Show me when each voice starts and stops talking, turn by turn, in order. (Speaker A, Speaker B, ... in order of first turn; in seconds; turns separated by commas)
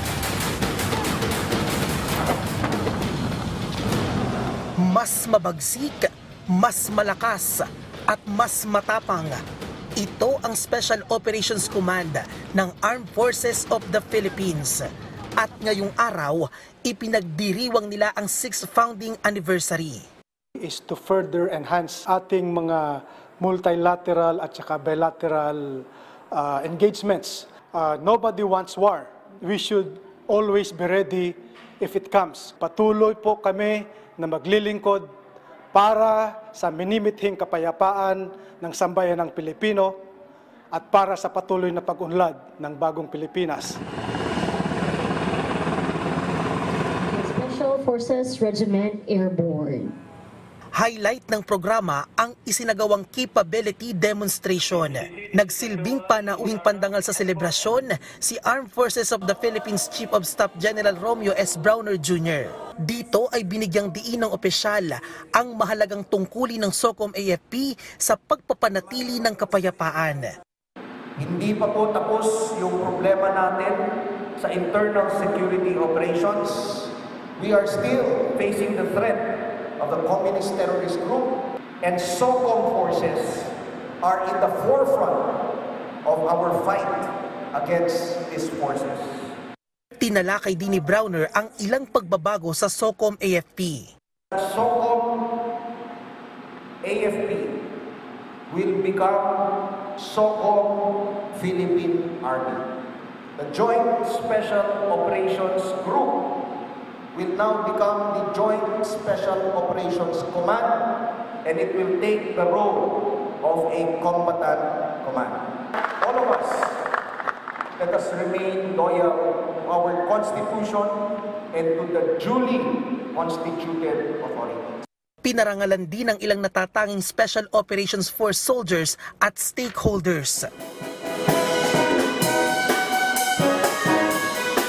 Speaker A: 4.8-9.4, Speaker A: 10.0-14.9, Speaker A: 15.4-20.1, Speaker B: 20.6-35.1, Speaker B: 35.7-40.0, Speaker B: 40.7-43.8, Speaker C: 47.0-50.0, Speaker A: 50.7-70.3, Speaker D: 71.2-73.8, Speaker D: 74.4-85.3, Speaker D: 86.0-89.2, Speaker A: 90.0-93.9, Speaker D: 94.3-95.2, Speaker D: 96.8-97.5, Speaker D: 98.5-102.7, Speaker D: 103.4-106.2, Speaker D: 107.1-110.8, Speaker D: 111.4-115.4, Speaker D: 116.0-116.8, Speaker D: 117.8-121.0, Speaker D: 121.5-124.8, Speaker A: 125.2-130.5